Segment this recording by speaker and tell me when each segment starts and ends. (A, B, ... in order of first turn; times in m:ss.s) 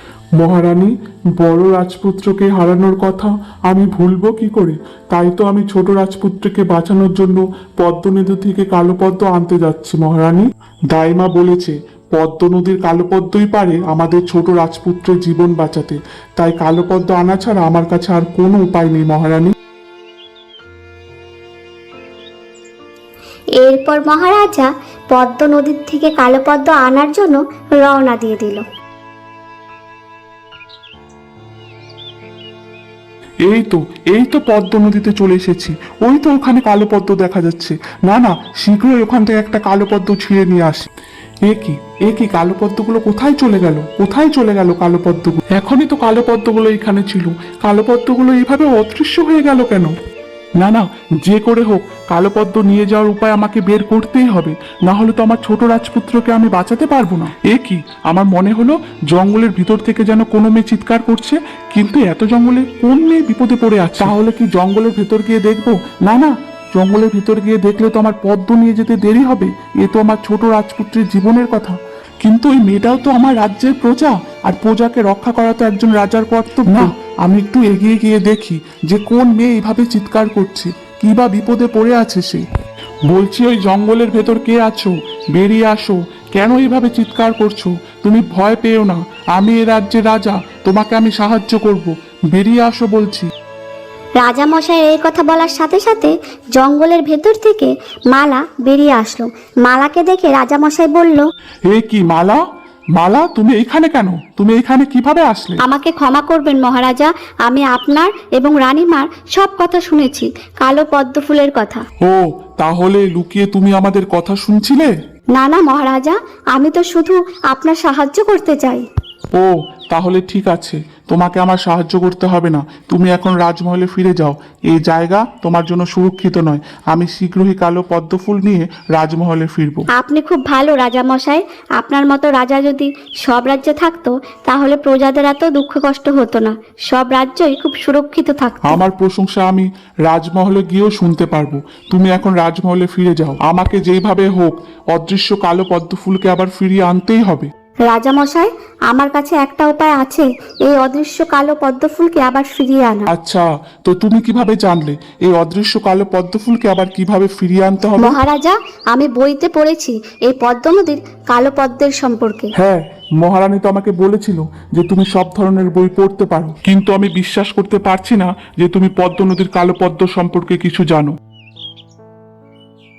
0:00.4-0:19.5 A
0:23.6-0:28.6 B
0:33.4-0:40.9 A
0:41.4-0:49.9 A
0:50.6-1:22.4 A
1:23.1-1:33.3 A
1:34.2-1:41.3 B
1:41.7-1:42.4 A
1:43.0-1:45.6 A
1:45.6-1:51.8 B
1:52.0-1:54.9 A
1:55.3-1:58.9 B
1:59.4-2:09.8 A
2:10.0-2:18.8 B
2:18.6-2:27.5 A
2:27.9-2:33.1 B
2:33.1-2:38.2 A
2:38.0-2:42.5 B
2:42.6-2:51.2 A